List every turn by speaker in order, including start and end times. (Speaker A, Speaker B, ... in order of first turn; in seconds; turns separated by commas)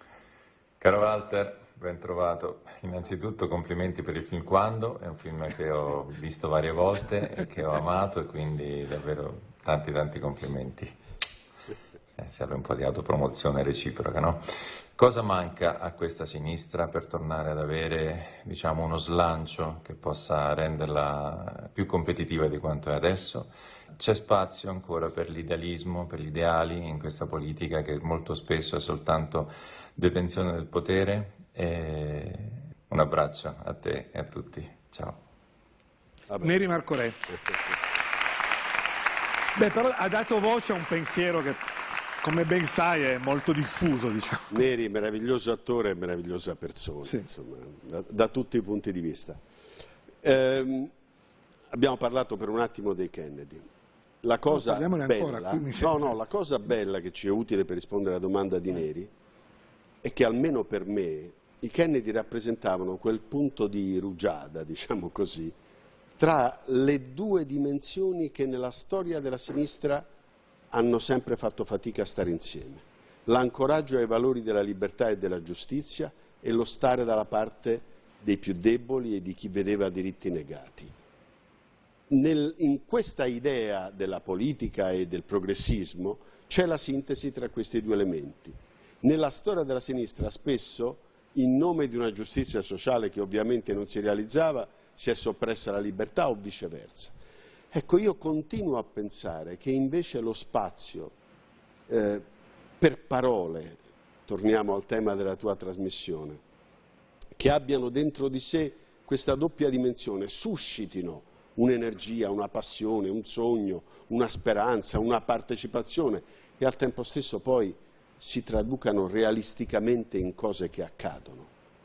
Speaker A: 0.8-10.9, Speaker A: 12.2-35.2, Speaker B: 36.3-36.6, Speaker C: 36.4-37.3, Speaker B: 37.3-37.6, Speaker C: 39.5-41.6, Speaker C: 42.2-44.6, Speaker B: 44.5-49.4, Speaker B: 50.2-50.9, Speaker B: 51.7-53.6, Speaker B: 54.2-59.1, Speaker C: 54.5-56.1, Speaker B: 60.0-65.5, Speaker B: 66.2-70.1, Speaker B: 70.7-80.9, Speaker B: 82.1-97.1, Speaker B: 97.7-101.1, Speaker B: 101.9-102.2, Speaker B: 102.8-106.4, Speaker B: 107.4-121.5